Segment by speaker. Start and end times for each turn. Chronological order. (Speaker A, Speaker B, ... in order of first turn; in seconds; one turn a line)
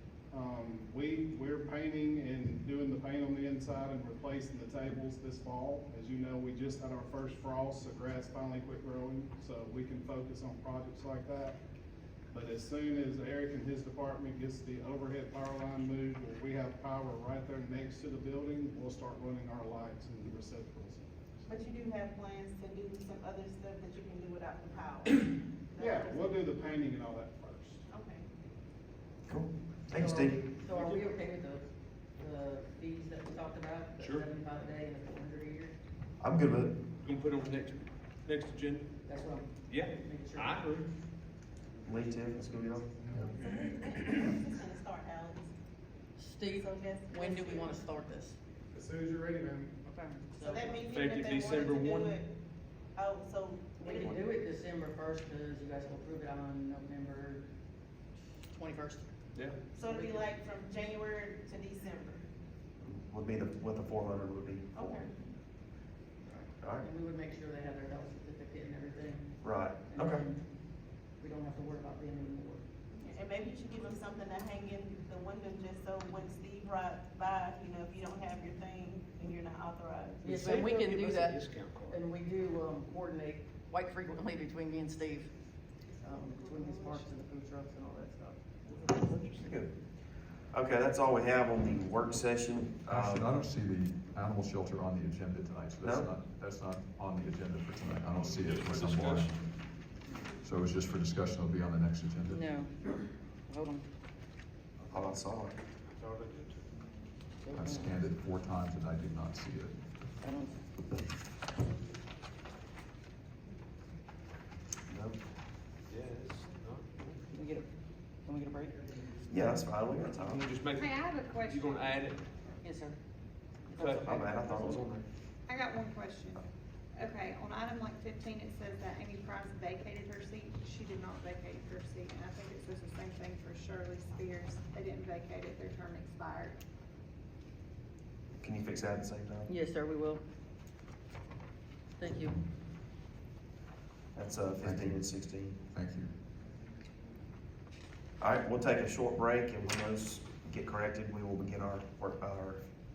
Speaker A: 0.3-11.6
Speaker A: 12.3-21.2
Speaker B: 21.5-26.3
Speaker A: 25.8-27.9
Speaker B: 27.9-28.2
Speaker C: 29.3-30.5
Speaker D: 29.9-35.7
Speaker E: 34.0-34.3
Speaker C: 36.2-36.8
Speaker E: 37.0-39.0
Speaker D: 39.0-40.8
Speaker E: 39.7-40.9
Speaker C: 41.9-42.9
Speaker A: 43.0-43.6
Speaker B: 43.4-45.5
Speaker D: 46.2-48.4
Speaker B: 46.5-47.8
Speaker A: 48.7-49.8
Speaker D: 49.9-50.9
Speaker B: 50.4-52.3
Speaker E: 50.9-52.2
Speaker B: 53.0-54.2
Speaker D: 53.8-57.5
Speaker D: 58.5-59.1
Speaker B: 59.8-62.2
Speaker D: 59.8-60.3
Speaker C: 62.8-64.8
Speaker B: 64.8-65.1
Speaker D: 66.2-70.4
Speaker C: 66.6-66.9
Speaker C: 69.4-70.2
Speaker D: 71.2-72.6
Speaker B: 72.9-80.2
Speaker D: 80.2-85.3
Speaker E: 80.3-82.0
Speaker B: 85.9-87.1
Speaker D: 86.0-88.4
Speaker E: 88.7-89.5
Speaker C: 89.4-89.7
Speaker C: 90.5-93.3
Speaker F: 92.9-99.3
Speaker C: 95.8-96.1
Speaker E: 98.2-99.4
Speaker F: 100.4-102.4
Speaker D: 102.3-103.8
Speaker C: 104.9-105.6
Speaker E: 106.0-106.6
Speaker D: 107.4-108.0
Speaker F: 107.5-109.8
Speaker D: 110.2-110.6
Speaker C: 114.9-115.2
Speaker E: 115.9-117.2
Speaker D: 117.3-117.7
Speaker D: 118.2-118.9
Speaker C: 119.3-120.5
Speaker E: 120.1-122.2
Speaker G: 120.8-122.1
Speaker D: 122.6-123.0
Speaker D: 123.7-124.8
Speaker E: 123.8-124.7
Speaker C: 124.0-125.0
Speaker G: 125.5-136.6
Speaker C: 138.4-139.5
Speaker D: 139.5-140.2
Speaker D: 142.0-142.4
Speaker C: 144.1-145.6
Speaker F: 144.6-145.0
Speaker F: 145.7-146.1
Speaker C: 148.2-152.6